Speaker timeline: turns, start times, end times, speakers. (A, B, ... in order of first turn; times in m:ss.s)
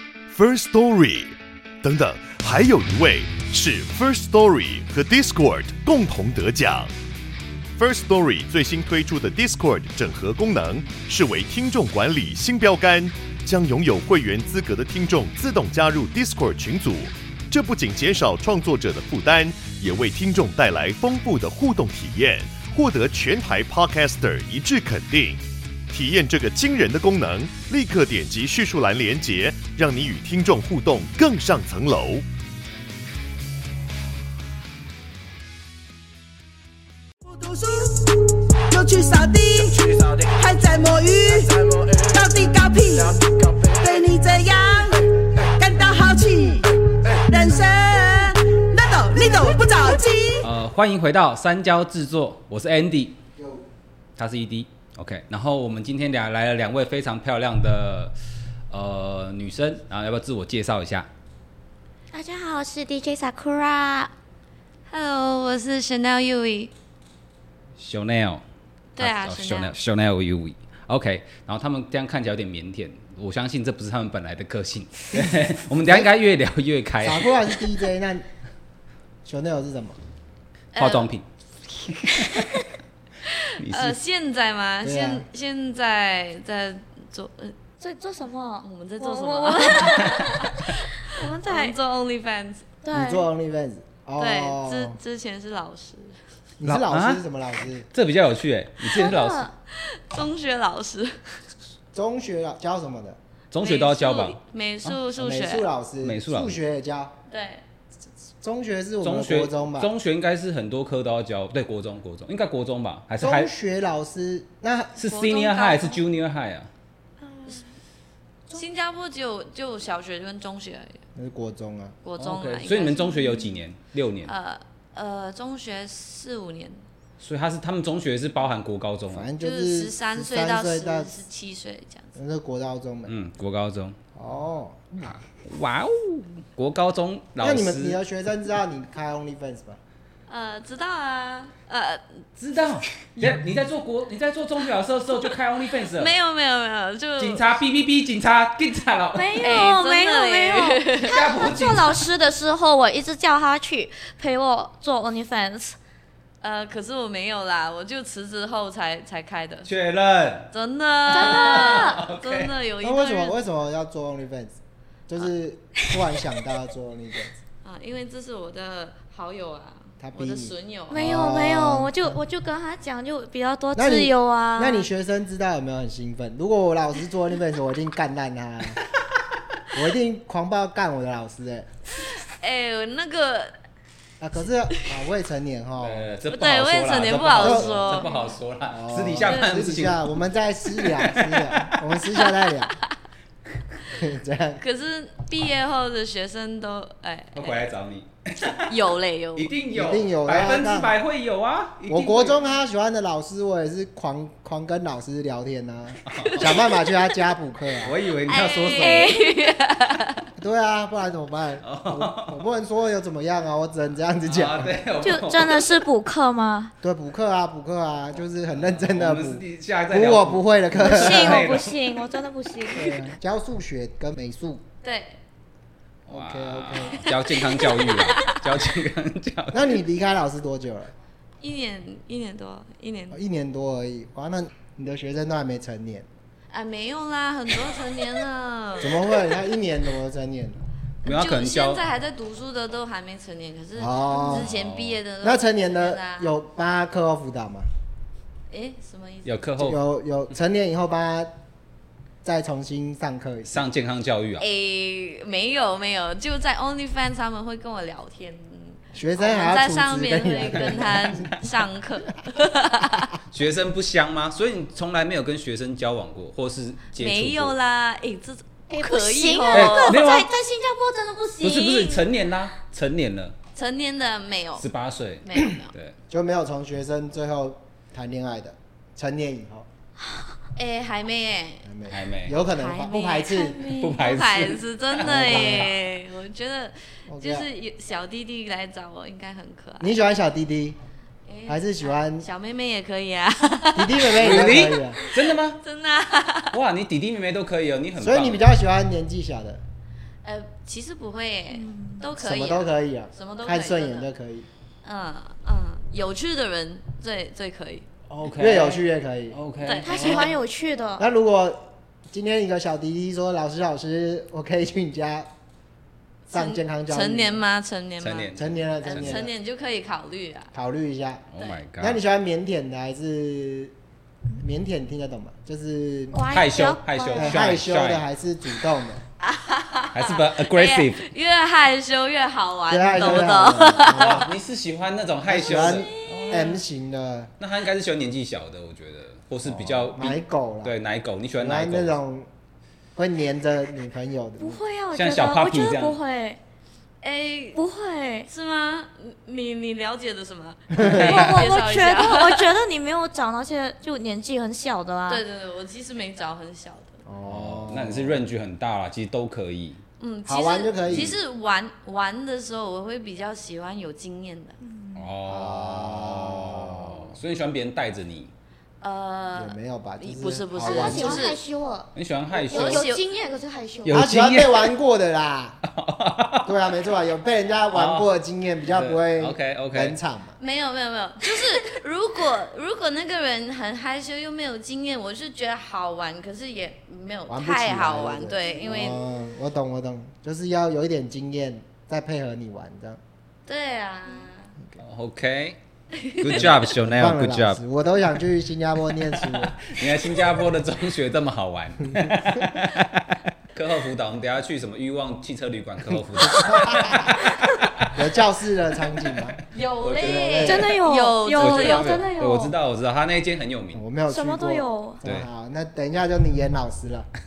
0:00.3-0:06.9 A
0:07.8-0:32.2 A
0:37.2-0:50.5 B
0:50.4-0:53.2 C
0:53.4-0:53.6 D
0:54.2-0:58.1 C
0:58.7-1:01.1 C
1:02.1-1:04.1 E
1:04.9-1:06.7 F
1:07.8-1:08.4 C
1:09.0-1:09.7 F
1:09.0-1:17.6 C
1:15.1-1:16.1 D
1:17.0-1:18.2 D
1:19.2-1:20.0 D
1:20.7-1:21.1 F
1:20.8-1:22.6 C
1:23.3-1:27.5 F
1:23.6-1:24.0 C
1:24.8-1:25.2 D
1:27.8-1:31.8 E
1:28.6-1:30.8 F
1:31.4-1:32.6 F
1:32.8-1:33.2 E
1:32.9-1:35.0 D
1:34.2-1:36.2 F
1:36.6-1:37.8 D
1:36.6-1:37.2 C
1:37.9-1:39.5 C
1:38.9-1:39.5 E
1:39.8-1:41.3 F
1:41.9-1:43.2 D
1:43.5-1:44.9 C
1:43.6-1:45.7 F
1:45.2-1:47.1 D
1:46.0-1:46.6 C
1:47.3-1:47.6 F
1:48.4-1:49.9 D
1:49.0-1:53.5 C
1:53.2-1:54.9 D
1:55.0-1:56.7 C
1:55.0-1:56.0 F
1:57.2-1:57.6 E
1:58.5-2:01.0 F
2:01.1-2:02.0 D
2:02.0-2:03.3 F
2:02.2-2:04.3 C
2:03.2-2:03.5 E
2:04.2-2:06.8 F
2:07.2-2:09.3 C
2:09.1-2:11.1 D
2:09.4-2:12.1 F
2:12.1-2:13.1 D
2:13.0-2:14.0 C
2:14.1-2:15.1 D
2:15.0-2:18.0 C
2:17.4-2:19.8 D
2:20.3-2:22.2 F
2:22.4-2:26.1 C
2:25.9-2:27.4 F
2:27.2-2:29.6 C
2:29.1-2:35.8 E
2:29.4-2:31.2 F
2:31.0-2:32.0 C
2:36.4-2:39.7 F
2:39.6-2:40.5 C
2:40.5-2:43.4 F
2:41.0-2:42.5 C
2:41.1-2:42.0 E
2:42.8-2:44.5 D
2:45.1-2:47.4 D
2:47.6-2:51.0 F
2:50.0-2:52.2 D
2:50.9-2:54.8 E
2:53.7-2:58.8 D
2:59.7-3:01.7 D
3:02.1-3:03.5 F
3:04.2-3:06.1 D
3:05.8-3:10.0 C
3:06.3-3:08.3 F
3:07.4-3:07.7 D
3:08.7-3:12.8 D
3:10.7-3:11.8 C
3:13.9-3:14.6 D
3:14.6-3:17.7 F
3:17.3-3:18.7 C
3:18.7-3:19.5 F
3:19.4-3:22.5 C
3:19.7-3:21.0 D
3:21.9-3:28.0 D
3:26.0-3:26.6 C
3:27.8-3:29.1 C
3:28.3-3:30.2 F
3:28.7-3:29.2 E
3:30.4-3:34.8 D
3:31.6-3:32.4 C
3:34.2-3:35.8 C
3:35.0-3:36.7 E
3:36.8-3:41.5 D
3:38.5-3:41.9 C
3:40.8-3:43.0 E
3:42.7-3:44.6 D
3:44.8-3:45.2 F
3:46.0-3:49.6 C
3:46.1-3:47.0 D
3:47.0-3:48.4 F
3:49.5-3:50.9 D
3:51.4-3:53.2 F
3:53.1-3:56.0 D
3:56.5-3:59.3 F
3:58.8-4:00.6 D
4:01.0-4:01.8 C
4:01.0-4:06.3 F
4:03.8-4:04.5 D
4:04.3-4:05.0 C
4:05.2-4:07.7 D
4:08.5-4:09.4 F
4:09.2-4:09.8 C
4:09.6-4:11.3 D
4:12.2-4:13.6 D
4:13.5-4:14.4 C
4:14.4-4:23.1 F
4:18.9-4:21.3 D
4:23.3-4:27.5 C
4:27.0-4:30.0 F
4:28.7-4:32.0 E
4:29.5-4:30.3 C
4:31.4-4:33.3 C
4:33.5-4:34.6 F
4:34.6-4:35.9 C
4:35.2-4:35.7 F
4:36.1-4:39.7 D
4:40.6-4:41.7 F
4:41.6-4:43.7 D
4:41.9-4:42.4 C
4:42.6-4:43.3 F
4:42.9-4:44.0 E
4:43.7-4:45.7 C
4:44.0-4:49.9 F
4:45.0-4:45.7 D
4:47.1-4:47.5 D
4:49.8-4:50.8 D
4:51.3-4:56.5 F
4:51.5-4:52.2 D
4:53.7-4:55.0 D
4:54.1-4:55.6 C
4:56.5-4:58.4 C
4:58.0-4:59.6 D
5:00.2-5:04.1 F
5:01.5-5:02.0 E
5:02.2-5:04.5 D
5:04.8-5:07.9 F
5:08.1-5:10.3 C
5:08.3-5:10.3 D
5:09.6-5:10.0 F
5:09.8-5:11.0 E
5:11.0-5:15.3 D
5:16.3-5:17.4 D
5:16.3-5:20.5 F
5:18.0-5:19.2 C
5:18.3-5:19.3 D
5:20.5-5:21.2 D
5:21.3-5:22.0 C
5:21.8-5:23.7 D
5:24.4-5:26.4 D
5:26.1-5:27.3 E
5:26.3-5:28.0 C
5:27.1-5:29.0 D
5:29.2-5:34.2 F
5:29.9-5:31.0 C
5:32.7-5:34.3 D
5:33.8-5:36.6 C
5:35.2-5:37.3 D
5:37.4-5:42.0 C
5:39.4-5:40.7 D
5:41.4-5:42.3 D
5:42.9-5:44.6 D
5:44.4-5:46.4 E
5:44.9-5:46.0 C
5:47.0-5:47.6 F
5:47.5-5:48.3 E
5:48.3-5:52.5 F
5:50.7-5:51.1 D
5:50.8-5:51.2 C
5:51.0-5:55.2 E
5:55.1-5:56.9 F
5:57.0-5:58.2 D
5:57.2-5:59.8 C
6:00.0-6:04.6 F
6:00.2-6:01.2 D
6:00.9-6:01.1 C
6:04.6-6:05.1 E
6:04.9-6:08.3 C
6:05.2-6:07.1 D
6:08.8-6:11.4 F
6:09.3-6:11.3 D
6:10.6-6:14.0 E
6:11.9-6:12.9 C
6:12.5-6:13.0 F
6:13.8-6:14.7 C
6:13.9-6:15.6 D
6:15.6-6:16.6 C
6:16.4-6:20.4 D
6:17.7-6:18.1 C
6:18.6-6:20.0 C
6:20.4-6:29.0 F
6:27.3-6:33.0 D
6:33.4-6:34.5 F
6:34.8-6:35.6 C
6:35.9-6:36.4 F
6:36.2-6:37.6 C
6:36.3-6:39.6 D
6:39.1-6:48.0 C
6:46.2-6:47.1 D
6:47.9-6:49.4 D
6:49.5-6:52.1 F
6:49.8-6:50.5 C
6:49.9-6:50.8 D
6:50.4-6:52.5 E
6:51.3-6:53.8 C
6:53.7-6:57.1 D
6:54.1-6:55.0 E